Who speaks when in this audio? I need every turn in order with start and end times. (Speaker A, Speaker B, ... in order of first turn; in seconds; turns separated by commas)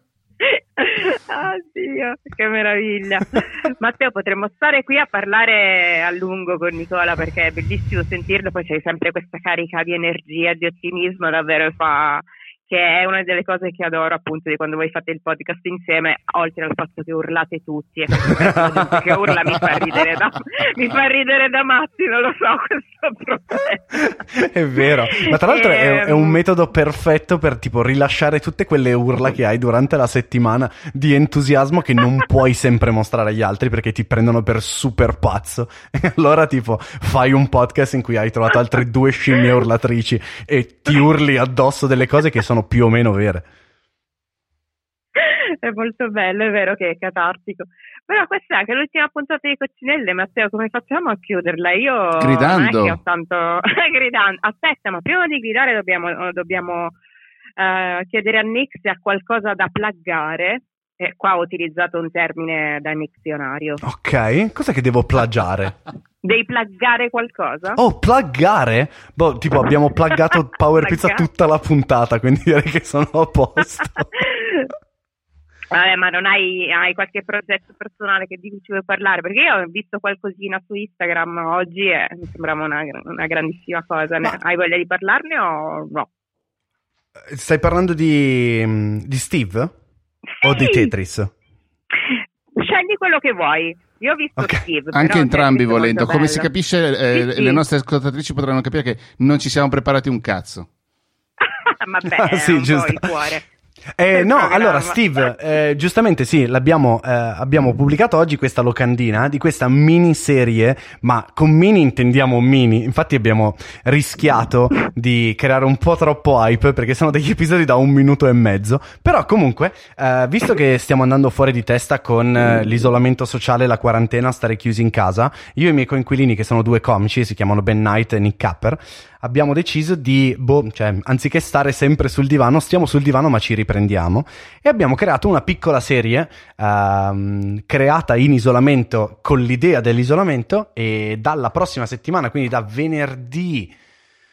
Speaker A: 0.4-24.1, Speaker B: 18.3-19.2, Speaker B: 23.9-43.5, Speaker A: 25.1-26.4, Speaker A: 45.2-56.9, Speaker C: 52.2-53.0, Speaker A: 57.6-63.8, Speaker B: 63.8-65.8, Speaker A: 66.2-67.8, Speaker B: 67.8-74.1, Speaker A: 70.8-71.3, Speaker A: 74.2-74.7, Speaker A: 75.7-86.1, Speaker B: 87.3-89.8, Speaker A: 90.4-90.9, Speaker B: 90.4-91.3, Speaker A: 92.0-96.5, Speaker B: 94.4-94.6, Speaker C: 94.9-100.7, Speaker A: 97.1-97.6, Speaker A: 101.4-103.4, Speaker B: 102.1-103.1, Speaker B: 104.0-143.7, Speaker A: 104.1-105.0